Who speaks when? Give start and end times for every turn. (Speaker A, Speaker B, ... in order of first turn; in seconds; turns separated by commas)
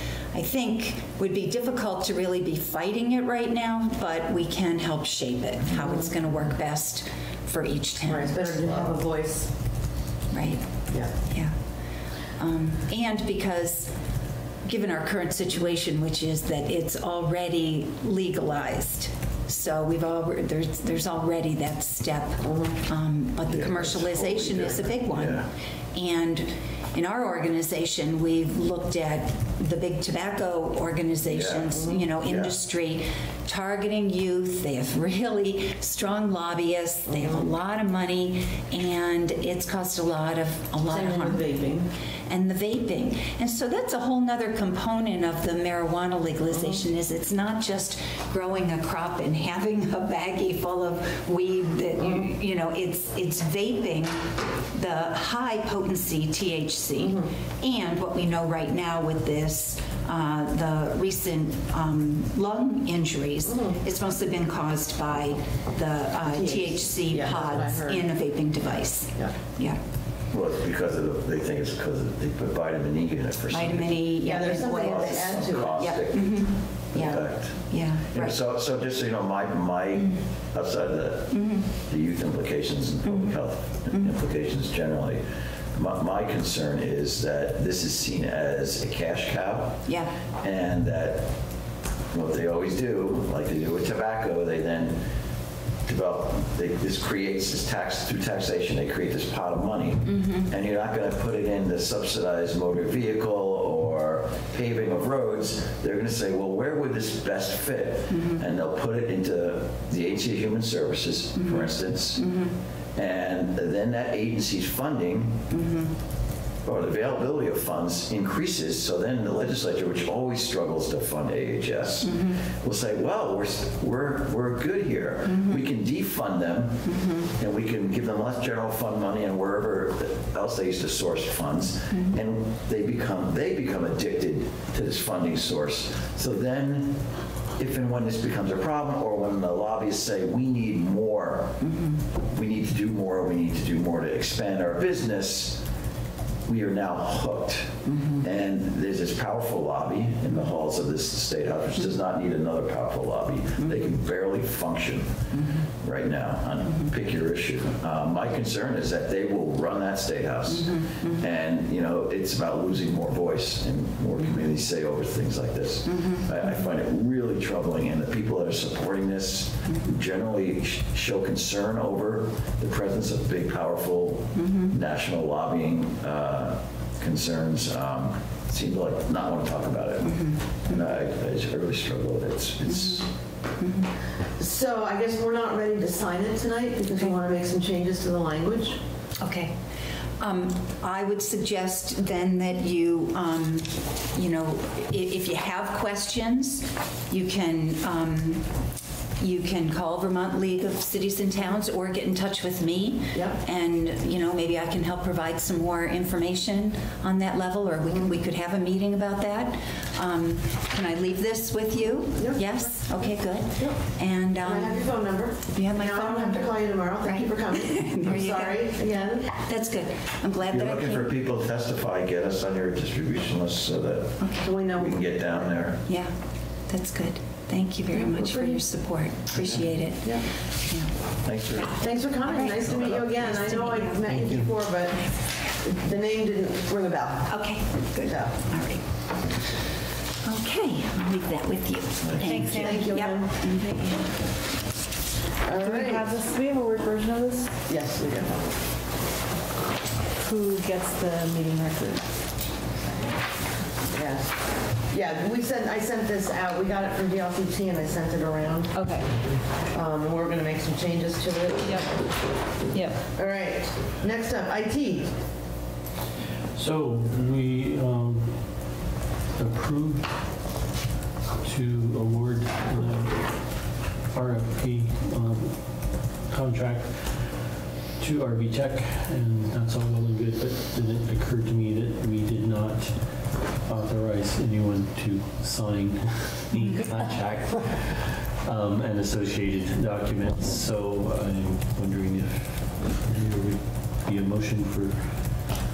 Speaker A: 0.3-8.5, Speaker B: 5.7-6.1, Speaker B: 8.1-9.5, Speaker C: 8.7-9.0, Speaker A: 10.3-11.8, Speaker B: 10.9-11.1, Speaker A: 12.4-14.0, Speaker A: 14.6-41.5, Speaker B: 22.4-22.8, Speaker C: 23.5-25.5, Speaker C: 31.3-31.7, Speaker B: 31.7-32.0, Speaker C: 32.2-32.5, Speaker B: 37.1-37.5, Speaker B: 40.9-41.9, Speaker A: 42.3-69.8, Speaker B: 46.5-46.8, Speaker B: 52.0-52.3, Speaker B: 57.0-57.3, Speaker B: 63.5-63.8, Speaker B: 66.2-68.4, Speaker C: 70.3-89.8, Speaker A: 73.5-78.4, Speaker B: 74.2-76.1, Speaker A: 80.0-80.3, Speaker A: 81.3-81.7, Speaker A: 83.0-84.2, Speaker A: 89.9-90.1, Speaker C: 90.4-91.3, Speaker C: 92.1-95.0, Speaker C: 95.8-112.4, Speaker A: 100.1-100.5, Speaker A: 108.1-108.5, Speaker A: 111.3-112.5, Speaker C: 113.0-115.4, Speaker A: 115.5-116.0, Speaker C: 116.6-141.6, Speaker A: 122.0-122.4, Speaker A: 125.2-125.7, Speaker A: 126.8-127.3, Speaker A: 131.9-132.2, Speaker A: 141.6-142.0, Speaker C: 142.2-145.6, Speaker C: 146.4-183.1, Speaker A: 147.8-148.3, Speaker A: 153.6-153.9, Speaker A: 155.3-155.7, Speaker A: 160.5-161.3, Speaker A: 165.8-166.7, Speaker A: 169.7-169.9, Speaker A: 174.3-174.8, Speaker A: 180.0-180.9, Speaker A: 182.7-183.9, Speaker B: 184.4-188.8, Speaker A: 189.2-189.6, Speaker A: 190.2-198.6, Speaker A: 199.2-221.1, Speaker B: 203.1-203.4, Speaker B: 212.2-219.3, Speaker C: 220.5-225.8, Speaker A: 224.2-224.6, Speaker B: 224.4-225.5, Speaker A: 225.8-231.2, Speaker B: 227.9-228.7, Speaker C: 229.4-229.7, Speaker B: 230.0-230.3, Speaker C: 231.2-231.9, Speaker B: 231.8-238.4, Speaker A: 232.2-234.3, Speaker C: 232.6-233.4, Speaker A: 237.3-239.4, Speaker A: 240.2-244.3, Speaker C: 242.0-242.5, Speaker D: 242.2-242.9, Speaker B: 242.4-243.3, Speaker B: 245.4-246.1, Speaker D: 245.6-247.5, Speaker B: 247.7-248.4, Speaker D: 250.2-252.2, Speaker D: 252.8-253.1, Speaker B: 253.9-258.8, Speaker D: 258.7-259.1, Speaker B: 259.7-262.1, Speaker D: 261.7-261.9, Speaker D: 262.7-263.0, Speaker B: 263.1-265.1, Speaker E: 266.6-268.7, Speaker E: 269.4-270.4, Speaker E: 271.4-277.4, Speaker E: 278.0-295.5